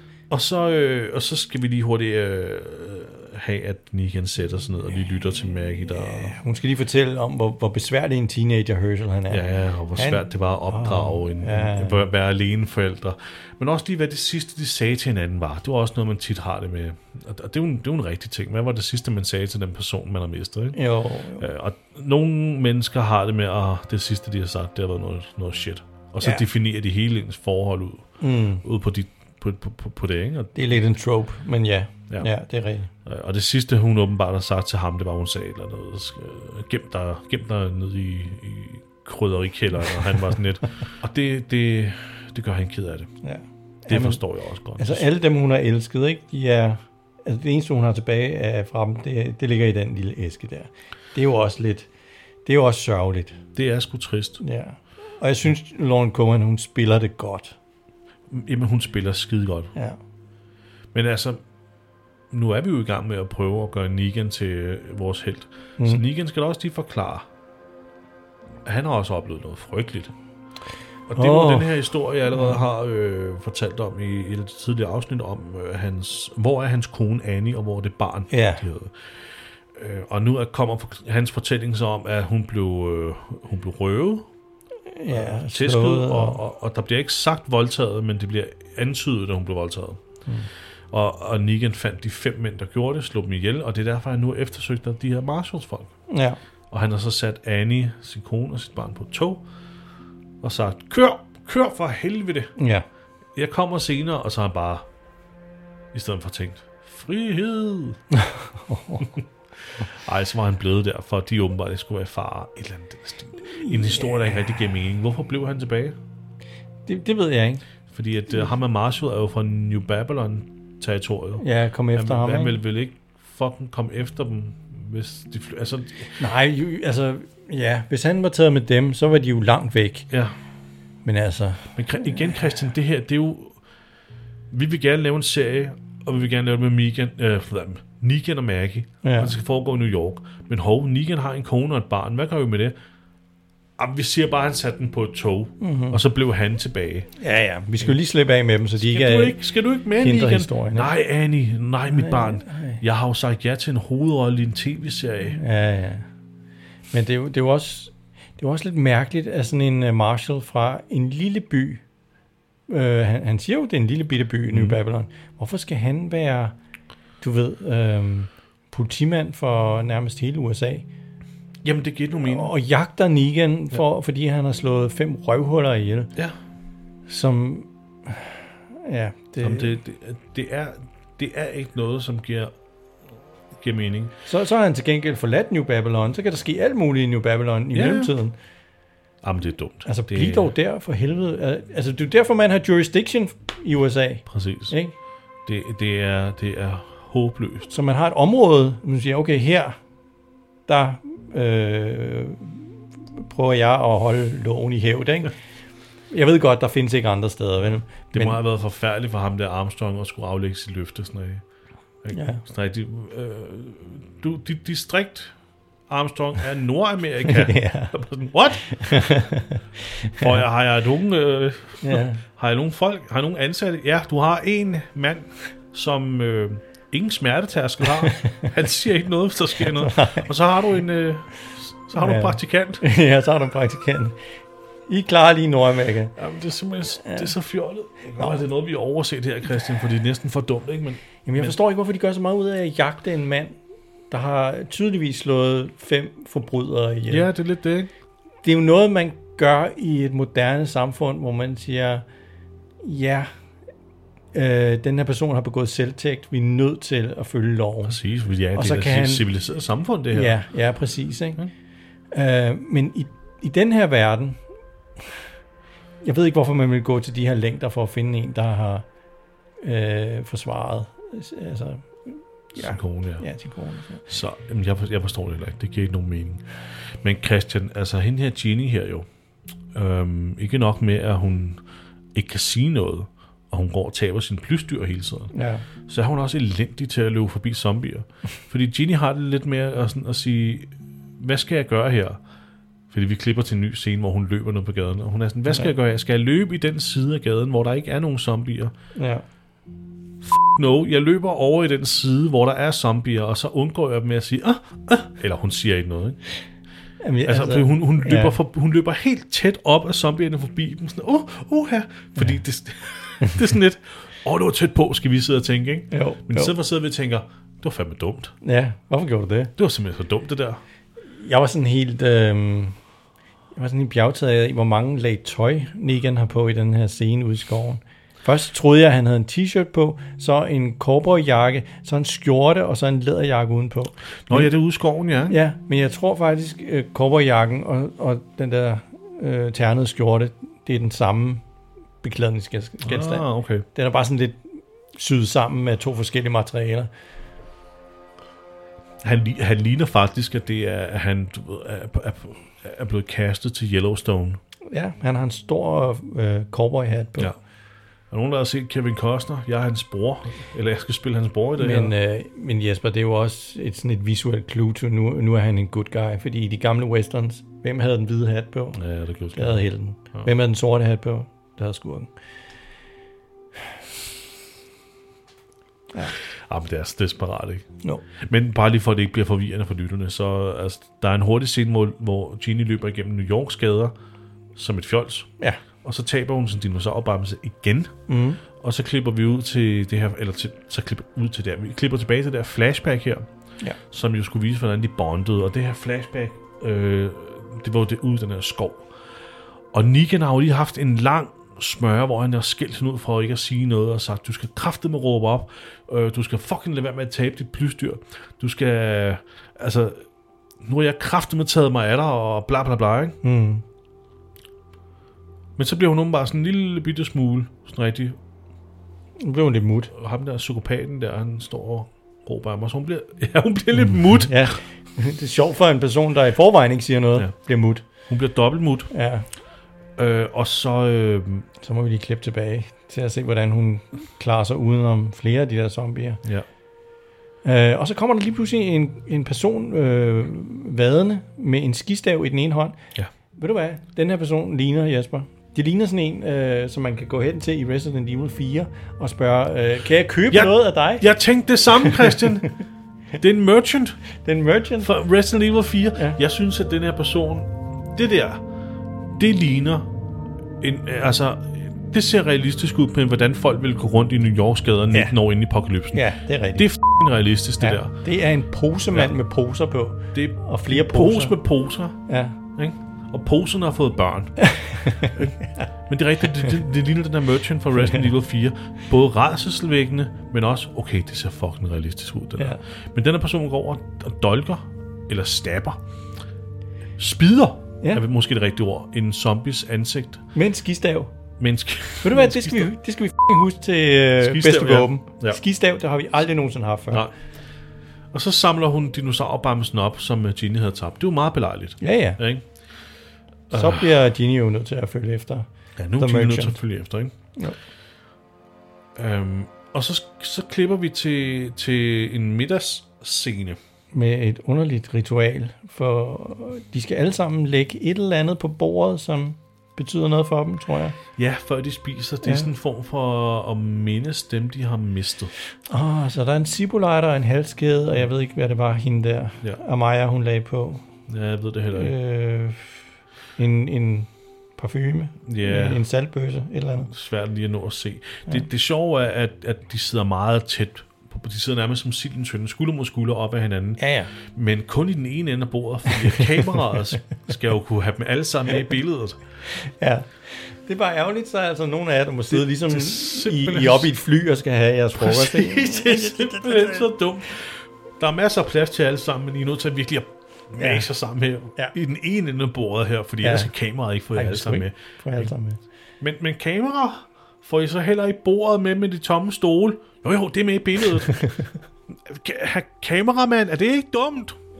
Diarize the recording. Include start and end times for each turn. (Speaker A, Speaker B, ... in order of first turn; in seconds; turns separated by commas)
Speaker A: 0.3-6.3, Speaker B: 5.9-12.0, Speaker A: 9.3-20.8, Speaker B: 20.7-21.4, Speaker A: 21.4-30.5, Speaker B: 28.2-28.6, Speaker B: 30.5-32.9, Speaker A: 33.0-43.1, Speaker B: 43.2-44.2, Speaker A: 43.9-45.0, Speaker B: 44.8-51.9, Speaker B: 52.4-53.4, Speaker A: 53.5-54.4, Speaker B: 54.4-57.5, Speaker A: 58.3-59.7, Speaker A: 60.9-61.4, Speaker A: 62.3-67.2, Speaker A: 68.6-70.1, Speaker A: 71.1-79.0, Speaker B: 71.2-71.7, Speaker B: 72.3-72.6, Speaker B: 78.3-78.6, Speaker A: 79.7-84.3, Speaker B: 84.9-86.4, Speaker A: 85.1-90.0, Speaker A: 90.9-95.9, Speaker B: 96.1-96.4, Speaker A: 96.7-99.4, Speaker A: 100.4-102.5, Speaker B: 102.6-102.8, Speaker A: 103.3-104.8, Speaker A: 105.9-108.0, Speaker B: 108.1-109.1, Speaker A: 109.6-116.0, Speaker B: 113.6-114.3, Speaker B: 116.8-117.6, Speaker A: 117.9-126.2, Speaker B: 121.4-122.6, Speaker B: 126.2-130.1, Speaker B: 131.0-132.7, Speaker A: 131.8-133.6, Speaker A: 134.5-142.7, Speaker B: 139.0-139.3, Speaker A: 143.8-147.1, Speaker B: 145.6-146.0, Speaker B: 147.2-149.4, Speaker A: 148.8-155.4, Speaker B: 150.0-150.9, Speaker B: 151.9-152.8, Speaker B: 155.3-156.1, Speaker B: 156.9-161.8, Speaker B: 162.7-166.5, Speaker A: 164.5-164.8, Speaker B: 167.2-170.8, Speaker A: 171.6-172.5, Speaker B: 172.2-176.1, Speaker B: 177.1-179.7, Speaker A: 179.4-182.5, Speaker A: 183.6-184.1, Speaker B: 184.3-188.3, Speaker A: 187.7-188.1, Speaker A: 189.2-190.5, Speaker B: 189.8-194.9, Speaker A: 194.3-194.8, Speaker A: 195.4-197.7, Speaker B: 197.7-199.8, Speaker B: 200.7-205.3, Speaker B: 206.1-208.4, Speaker A: 208.1-211.4, Speaker A: 212.0-215.3, Speaker B: 212.1-212.4, Speaker A: 215.9-219.0, Speaker B: 217.3-217.9, Speaker B: 218.7-220.4, Speaker A: 220.2-232.8, Speaker B: 221.8-222.2, Speaker B: 228.1-228.4, Speaker B: 229.8-230.3, Speaker B: 231.9-234.2, Speaker B: 234.9-236.1, Speaker A: 236.2-241.5, Speaker B: 237.0-237.3, Speaker B: 241.2-243.6, Speaker B: 244.1-247.3, Speaker A: 247.1-247.9, Speaker B: 248.4-252.0, Speaker B: 252.8-253.3, Speaker B: 254.3-258.0, Speaker A: 257.9-260.4, Speaker B: 258.5-259.2, Speaker B: 260.1-261.4, Speaker B: 262.1-264.4, Speaker B: 266.0-268.8, Speaker B: 269.6-274.0, Speaker A: 272.6-273.3, Speaker A: 274.1-276.4, Speaker A: 277.0-279.1, Speaker A: 279.7-281.6, Speaker A: 282.1-285.3, Speaker B: 285.3-285.6, Speaker A: 285.9-292.2, Speaker A: 292.9-298.7, Speaker B: 298.9-299.2, Speaker A: 300.2-306.2, Speaker B: 307.0-308.4, Speaker A: 307.2-318.3, Speaker B: 315.9-316.5, Speaker B: 318.4-319.5, Speaker A: 319.6-320.6, Speaker B: 321.1-322.8, Speaker B: 323.5-334.5, Speaker A: 334.3-335.4, Speaker B: 335.3-341.4, Speaker B: 342.0-346.9, Speaker A: 342.8-343.6, Speaker A: 349.0-354.4, Speaker B: 354.7-357.3, Speaker A: 358.1-361.9, Speaker B: 361.6-368.8, Speaker A: 368.8-369.6, Speaker B: 369.3-372.1, Speaker A: 376.5-377.7, Speaker A: 378.2-383.9, Speaker A: 384.6-385.3, Speaker A: 385.8-387.9, Speaker B: 388.1-388.4, Speaker A: 388.6-393.2, Speaker A: 393.9-398.9, Speaker A: 399.7-410.0, Speaker A: 410.6-413.2, Speaker B: 413.2-413.6, Speaker A: 415.6-418.2, Speaker B: 419.2-419.9, Speaker A: 419.9-424.5, Speaker B: 424.2-427.9, Speaker A: 428.0-428.9, Speaker B: 428.9-429.2, Speaker A: 430.0-431.5, Speaker B: 431.6-436.2, Speaker B: 437.4-442.8, Speaker B: 443.4-451.1, Speaker A: 450.3-452.5, Speaker B: 451.8-452.4, Speaker A: 453.2-454.0, Speaker B: 454.2-454.9, Speaker A: 454.8-458.4, Speaker A: 459.2-459.9, Speaker A: 460.6-467.9, Speaker B: 465.9-466.7, Speaker B: 467.6-471.4, Speaker A: 470.1-472.0, Speaker B: 472.1-472.4, Speaker A: 472.6-475.4, Speaker B: 474.4-475.7, Speaker A: 475.9-485.8, Speaker A: 487.0-490.2, Speaker B: 490.3-491.1, Speaker A: 491.4-492.7, Speaker B: 492.0-497.1, Speaker A: 494.2-495.4, Speaker A: 498.1-502.4, Speaker B: 501.8-502.2, Speaker A: 503.5-503.9, Speaker B: 503.5-505.5, Speaker A: 505.8-507.1, Speaker B: 506.0-506.6, Speaker A: 508.9-513.6, Speaker B: 513.9-521.0, Speaker A: 521.2-525.3, Speaker B: 522.2-522.5, Speaker B: 525.7-530.8, Speaker A: 531.1-531.9, Speaker B: 531.7-532.8, Speaker B: 533.4-536.9, Speaker A: 535.3-535.8, Speaker A: 536.9-549.2, Speaker B: 543.8-544.1, Speaker B: 549.5-556.9, Speaker A: 552.3-553.9, Speaker A: 555.0-565.3, Speaker B: 560.6-560.9, Speaker B: 563.2-563.5, Speaker B: 564.1-565.6, Speaker A: 566.0-571.3, Speaker B: 571.0-571.5, Speaker A: 571.9-574.4